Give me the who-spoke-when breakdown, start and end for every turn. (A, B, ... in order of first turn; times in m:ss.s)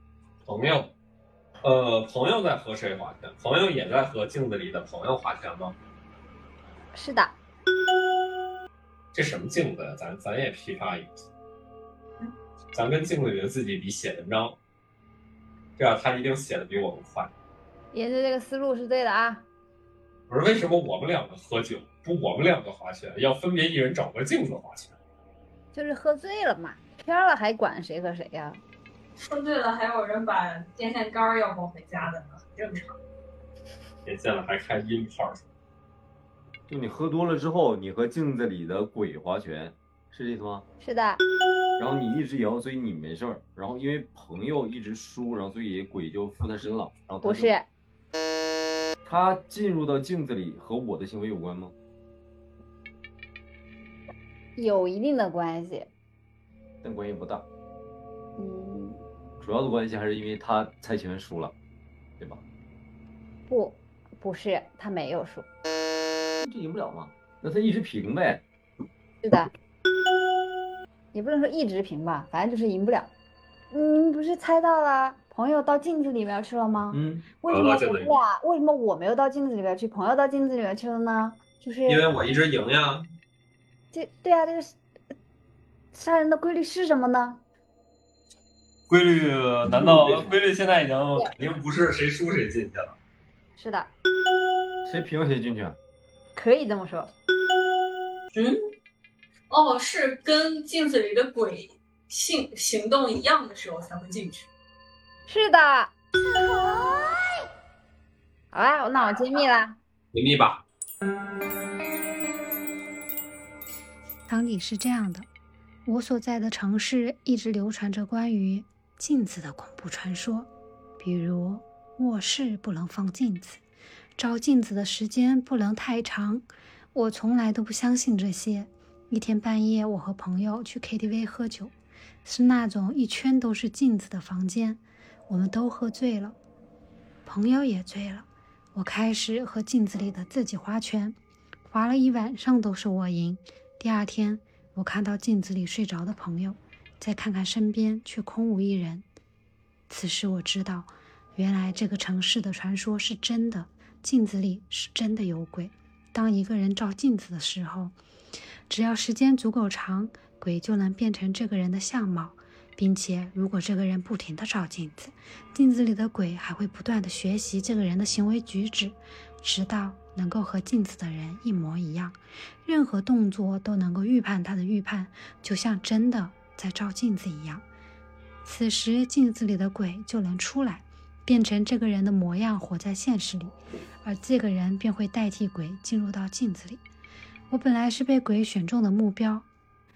0:00.4-0:00.9 A
0:01.6-0:05.8 A
0:06.9-0:07.4 B
0:09.1-0:11.2 A
0:12.7-0:14.6 A
0:15.8-0:17.3 A
0:17.9-0:19.4 B
0:20.3-0:24.9 A
0:25.7-0:28.6 B
0:29.2-0:33.0 C
0:34.0-0:35.4 A
0:36.7-0:40.7 D
0:40.8-0:41.2 B
0:41.8-0:47.5 D
0:47.2-0:47.7 B
0:49.0-0:51.7 D
0:54.6-0:55.9 B
0:56.8-0:57.5 D
0:58.4-0:59.0 B
0:59.4-1:01.5 D
1:03.5-1:05.5 B
1:06.4-1:08.4 D
1:09.2-1:09.5 B
1:11.1-1:13.1 B
1:13.7-1:22.1 B
1:16.9-1:17.3 D
1:17.5-1:18.2 A
1:21.8-1:23.1 A
1:23.9-1:24.8 B
1:25.9-1:27.4 B
1:28.9-1:33.0 A
1:29.7-1:30.4 D
1:33.6-1:33.9 B
1:34.9-1:35.8 D
1:36.4-1:37.1 B
1:39.5-1:44.5 C
1:45.3-1:45.9 B
1:48.5-1:49.8 B
1:50.1-1:50.6 A
1:54.3-1:55.3 E
1:55.8-2:03.6 E
2:04.2-2:11.7 E
2:12.2-2:16.4 E
2:17.3-2:29.0 E
2:29.9-2:38.0 E
2:38.7-2:57.6 E
2:58.4-3:06.8 E
3:07.5-3:09.5 E